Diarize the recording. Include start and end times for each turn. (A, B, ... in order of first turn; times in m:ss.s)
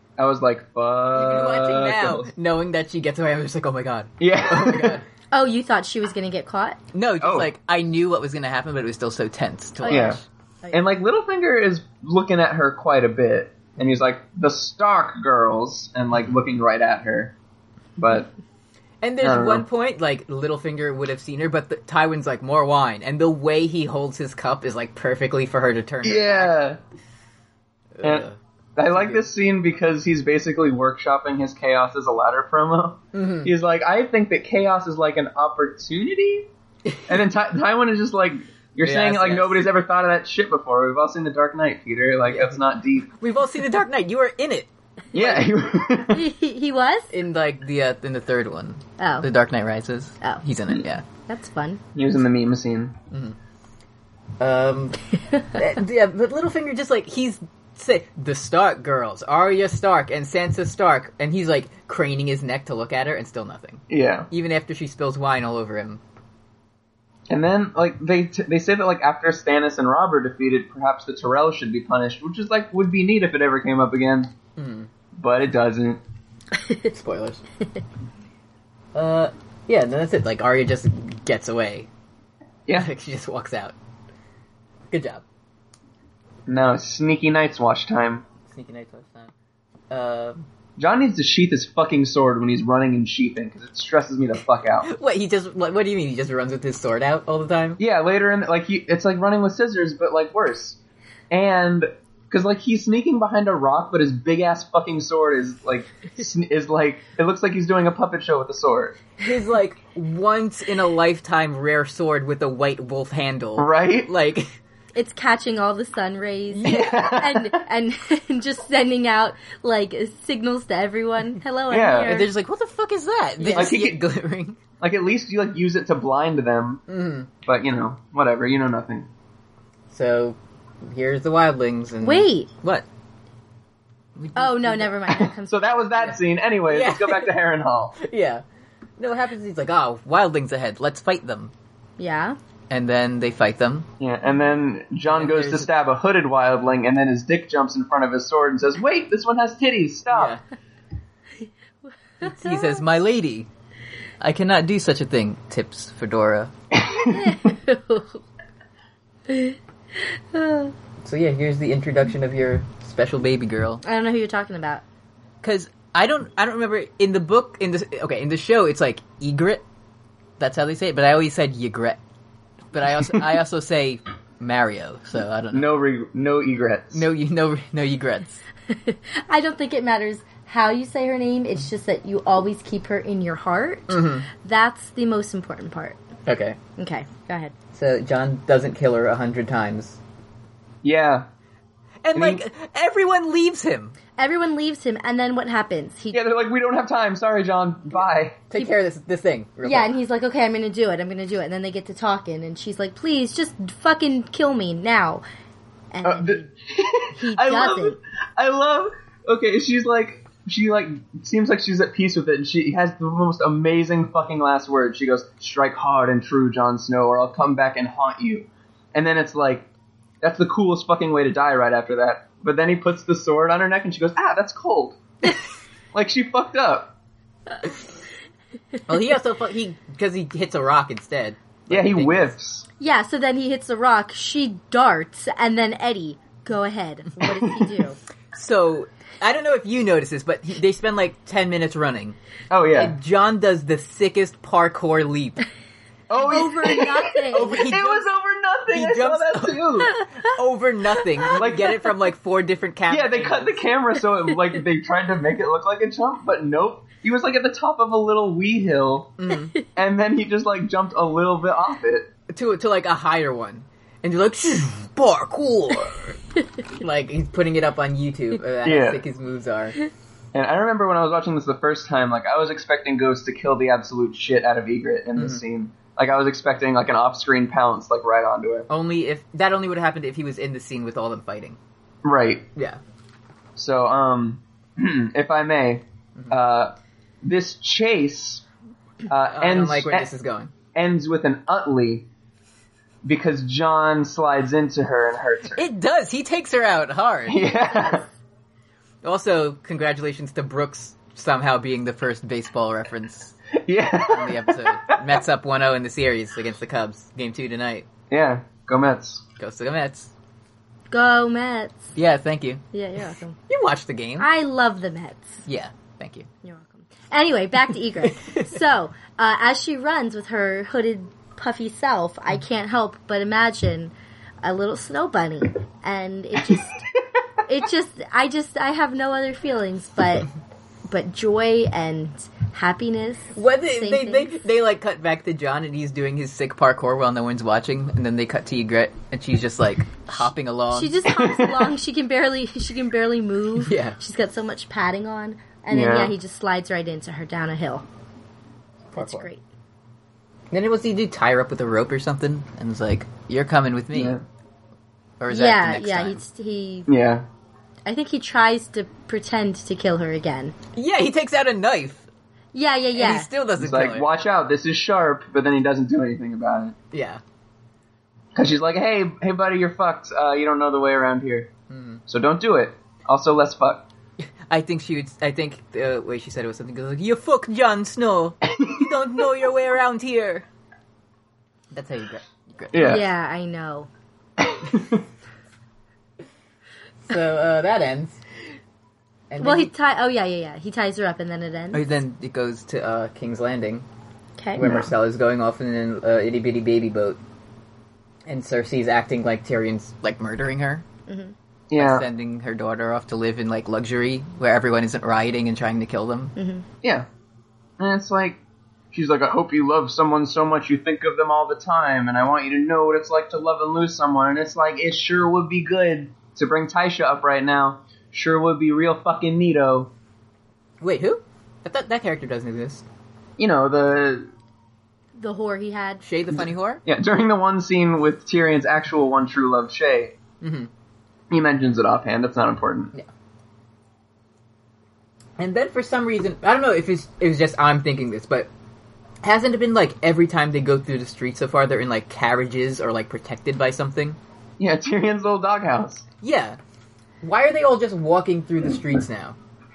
0:00.2-0:02.3 A
0:01.1-0:05.0 B
0:04.2-0:05.0 A
0:05.3-0:06.8 C
0:06.9-0:10.2 B
0:07.2-0:07.5 A
0:09.8-0:10.8 C
0:09.9-0:10.2 A
0:10.7-0:17.4 A
0:18.0-0:18.3 A
0:19.0-0:26.5 B
0:19.2-0:19.6 A
0:26.0-0:26.8 A
0:28.0-0:28.4 B
0:28.8-0:36.5 A
0:28.9-0:29.2 B
0:33.1-0:33.5 B
0:36.9-0:37.1 B
0:37.1-0:43.1 A
0:38.8-0:39.7 B
0:42.3-0:42.6 B
0:43.2-0:45.5 B
0:45.1-0:46.2 A
0:46.1-0:47.1 C
0:47.1-0:51.0 B
0:49.0-0:49.2 C
0:51.3-0:51.8 C
0:52.0-0:53.0 A
0:53.1-0:53.4 B
0:54.4-1:06.0 B
1:03.9-1:04.3 A
1:07.3-1:14.3 A
1:14.6-1:14.9 B
1:15.2-1:16.0 A
1:16.8-1:17.4 B
1:18.9-1:21.9 B
1:22.7-1:23.8 B
1:24.9-1:25.2 B
1:26.5-1:28.2 A
1:28.5-1:29.3 B
1:29.9-1:30.4 B
1:30.8-1:34.9 A
1:34.8-1:37.8 B
1:37.8-1:40.8 A
1:41.3-1:49.0 A
1:49.2-1:54.5 B
1:53.6-1:54.1 A
1:55.0-2:02.3 C
1:56.5-1:57.0 B
1:56.6-1:57.6 A
2:01.7-2:02.1 A
2:02.0-2:04.6 B
2:03.4-2:03.7 C
2:03.5-2:04.0 A
2:04.8-2:06.8 A
2:06.9-2:07.3 B
2:07.5-2:09.1 A
2:09.9-2:12.8 B
2:12.0-2:12.5 C
2:14.2-2:15.3 B
2:14.4-2:16.1 C
2:15.5-2:18.0 A
2:16.7-2:17.3 B
2:18.0-2:18.4 B
2:19.0-2:21.5 B
2:22.0-2:22.4 C
2:22.7-2:23.9 B
2:24.0-2:30.4 A
2:25.1-2:25.7 B
2:30.1-2:30.4 B
2:32.2-2:32.8 C
2:32.2-2:33.5 B
2:34.2-2:36.5 B
2:36.7-2:37.4 A
2:37.1-2:38.2 C
2:39.3-2:40.7 C
2:41.0-2:43.8 B
2:43.8-2:44.8 C
2:45.4-2:49.6 B
2:50.4-2:52.0 B
2:52.7-2:55.7 B
2:55.5-2:57.1 A
2:56.9-2:58.4 B
2:58.7-3:06.0 C
3:03.9-3:04.2 B
3:06.2-3:06.6 B
3:06.8-3:07.5 C
3:07.7-3:10.0 B
3:10.8-3:11.3 A
3:12.0-3:14.0 B
3:12.1-3:12.4 A
3:14.2-3:16.2 C
3:16.1-3:18.4 A
3:18.5-3:19.9 B
3:19.6-3:25.2 C
3:25.9-3:26.5 C
3:26.0-3:39.7 A
3:27.1-3:28.0 C
3:40.2-3:45.3 A
3:45.9-3:46.9 A
3:48.9-3:52.3 B
3:51.7-3:52.6 A
3:52.8-3:58.0 C
3:57.3-3:57.6 A
3:58.3-4:02.2 B
4:02.5-4:03.0 A
4:02.7-4:05.4 B
4:06.1-4:10.0 A
4:06.1-4:07.6 C
4:07.3-4:08.1 B
4:08.7-4:13.6 B
4:11.3-4:11.8 A
4:12.9-4:19.1 A
4:19.2-4:19.6 B
4:19.8-4:22.1 A
4:22.3-4:26.2 B
4:26.7-4:29.8 B
4:28.6-4:29.0 A
4:30.3-4:38.7 A
4:35.2-4:35.4 B
4:38.7-4:41.6 B
4:42.0-4:42.5 A
4:43.6-4:48.4 A
4:49.1-4:50.1 A
4:49.3-4:50.5 B
4:50.7-4:52.1 A
4:53.0-4:55.6 A
4:55.6-4:57.4 B
4:57.3-4:58.0 A
4:59.0-5:03.4 B
5:03.5-5:05.0 A
5:04.0-5:07.9 B
5:08.1-5:09.2 A
5:09.4-5:10.1 B
5:10.9-5:11.9 C
5:12.0-5:12.6 B
5:12.7-5:13.4 C
5:13.5-5:14.3 B
5:14.2-5:15.4 C
5:15.5-5:16.3 B
5:16.4-5:26.8 C
5:18.2-5:18.5 B
5:27.4-5:30.3 C
5:30.9-5:34.3 C
5:33.3-5:41.0 B
5:40.7-5:47.8 C
5:41.2-5:41.7 A
5:43.6-5:44.0 B
5:45.7-5:46.2 A
5:48.9-5:49.3 B
5:49.0-5:49.4 C
5:50.5-5:54.2 B
5:53.9-5:54.2 A
5:55.2-5:56.2 B
5:55.3-5:56.9 C
5:56.9-5:57.2 A
5:57.9-6:00.5 C
6:00.8-6:02.1 B
6:02.5-6:03.3 C
6:02.9-6:04.0 B
6:03.6-6:06.8 A
6:06.9-6:07.2 B
6:08.3-6:11.5 A
6:11.7-6:12.0 B
6:12.1-6:13.9 A
6:14.5-6:20.4 B
6:18.6-6:18.9 A
6:21.7-6:23.0 B
6:22.7-6:23.0 A
6:22.8-6:23.9 C
6:24.4-6:25.0 A
6:27.0-6:28.2 B
6:29.3-6:29.7 B
6:29.4-6:31.8 C
6:31.7-6:33.8 B
6:34.4-6:34.6 C
6:34.6-6:37.2 B
6:34.6-6:34.9 A
6:38.2-6:40.8 B
6:41.1-6:41.3 C
6:41.7-6:42.0 A
6:41.8-6:46.3 B
6:46.4-6:46.6 C
6:47.8-6:48.4 A
6:48.9-6:59.9 A
7:00.8-7:02.8 B
7:03.4-7:04.3 A
7:05.2-7:06.0 C
7:06.0-7:06.8 B
7:06.3-7:10.2 A
7:10.4-7:10.7 B
7:11.3-7:12.9 A
7:15.4-7:18.5 B
7:19.2-7:24.2 B
7:24.6-7:26.0 A
7:26.2-7:26.6 B
7:27.2-7:29.4 B